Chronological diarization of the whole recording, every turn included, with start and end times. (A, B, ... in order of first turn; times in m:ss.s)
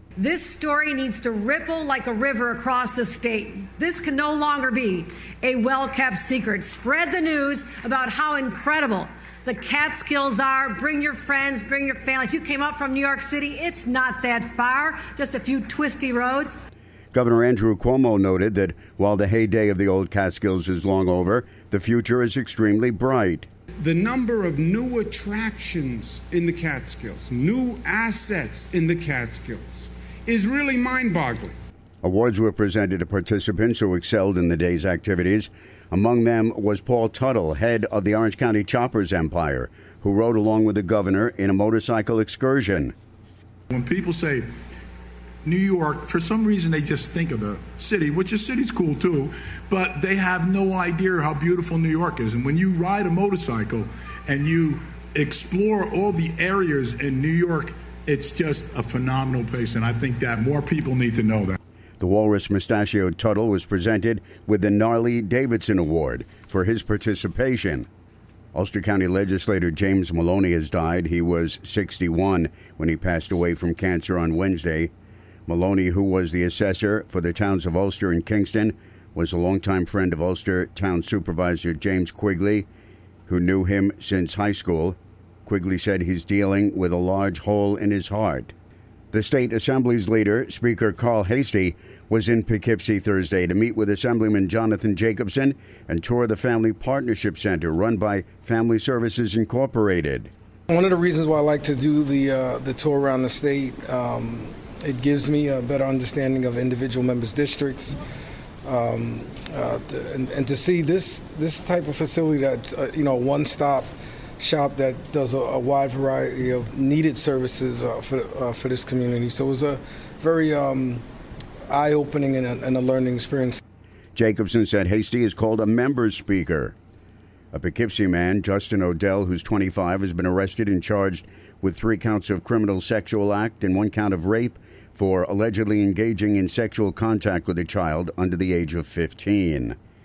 0:00.2-0:16.6 A
0:17.1-0:23.5 B
0:23.8-0:31.6 C
0:32.0-0:42.9 B
0:43.7-0:44.5 D
0:45.4-1:01.6 D
1:02.0-1:07.9 B
1:08.6-1:14.9 B
1:15.5-1:22.7 B
1:23.3-1:28.5 B
1:29.1-1:40.3 B
1:40.7-1:48.0 E
1:48.6-2:01.0 E
2:01.7-2:03.6 E
2:04.2-2:06.7 B
2:07.5-2:19.8 B